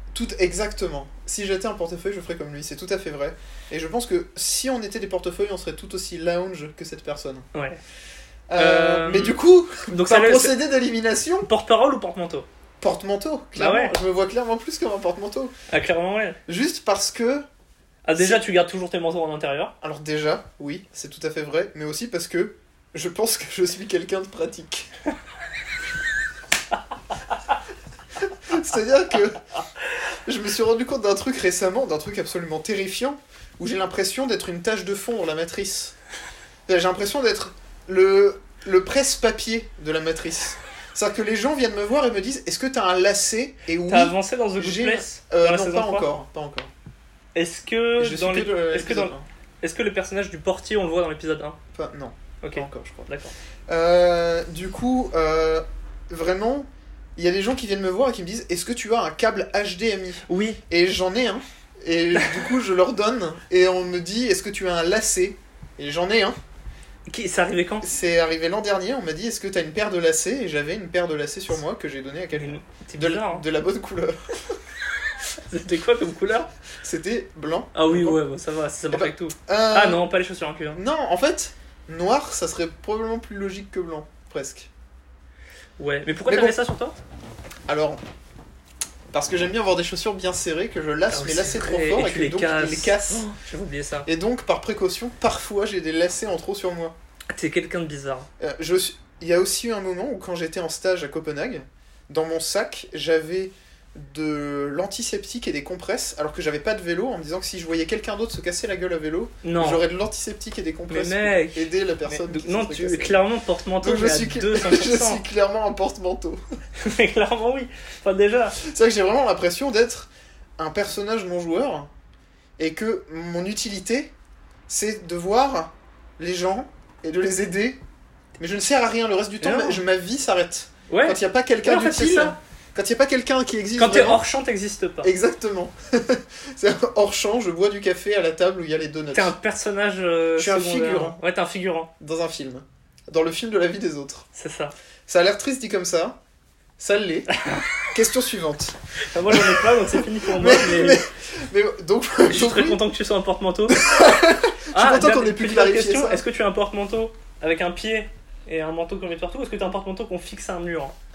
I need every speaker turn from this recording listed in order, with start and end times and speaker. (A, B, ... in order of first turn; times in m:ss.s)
0:00.1-0:07.4 A
0:07.5-0:07.8 B
0:08.5-0:11.5 A
0:08.6-0:10.6 B
0:11.4-0:12.4 B
0:12.8-0:15.5 A
0:13.6-0:14.0 B
0:15.7-0:16.4 B
0:16.5-0:17.4 A
0:18.0-0:19.7 B
0:18.2-0:18.4 A
0:19.8-0:24.9 A
0:28.2-0:29.4 A
0:30.2-0:36.0 A
0:36.7-0:46.7 A
0:43.9-0:46.1 B
0:47.3-0:51.6 B
0:48.0-0:49.2 A
0:51.7-0:53.1 A
0:52.4-0:53.3 B
0:53.7-1:06.4 A
1:00.2-1:00.6 B
1:07.1-1:07.9 B
1:07.8-1:14.6 A
1:12.4-1:13.4 B
1:15.3-1:16.5 B
1:16.8-1:18.2 A
1:17.7-1:20.8 B
1:18.9-1:20.0 A
1:20.7-1:24.7 A
1:25.8-1:27.0 B
1:26.2-1:26.6 A
1:27.7-1:28.0 A
1:29.1-1:33.3 A
1:31.1-1:34.1 B
1:34.0-1:36.9 A
1:37.3-1:38.3 B
1:38.4-1:53.2 A
1:49.4-1:49.8 B
1:50.9-1:55.2 B
1:53.8-1:56.4 A
1:56.8-1:58.6 B
1:58.6-2:01.9 A
2:02.6-2:04.1 A
2:04.7-2:07.8 A
2:08.4-2:14.2 A
2:09.4-2:09.8 B
2:10.9-2:12.4 B
2:13.8-2:15.1 B
2:15.0-2:19.3 A
2:19.1-2:21.9 B
2:20.4-2:21.2 A
2:22.0-2:24.2 A
2:24.3-2:24.7 B
2:25.1-2:26.2 A
2:26.8-2:27.3 A
2:27.3-2:27.7 B
2:27.9-2:28.8 A
2:29.1-2:31.0 B
2:29.3-2:32.8 A
2:32.3-2:33.8 B
2:33.7-2:36.2 A
2:34.7-2:40.9 B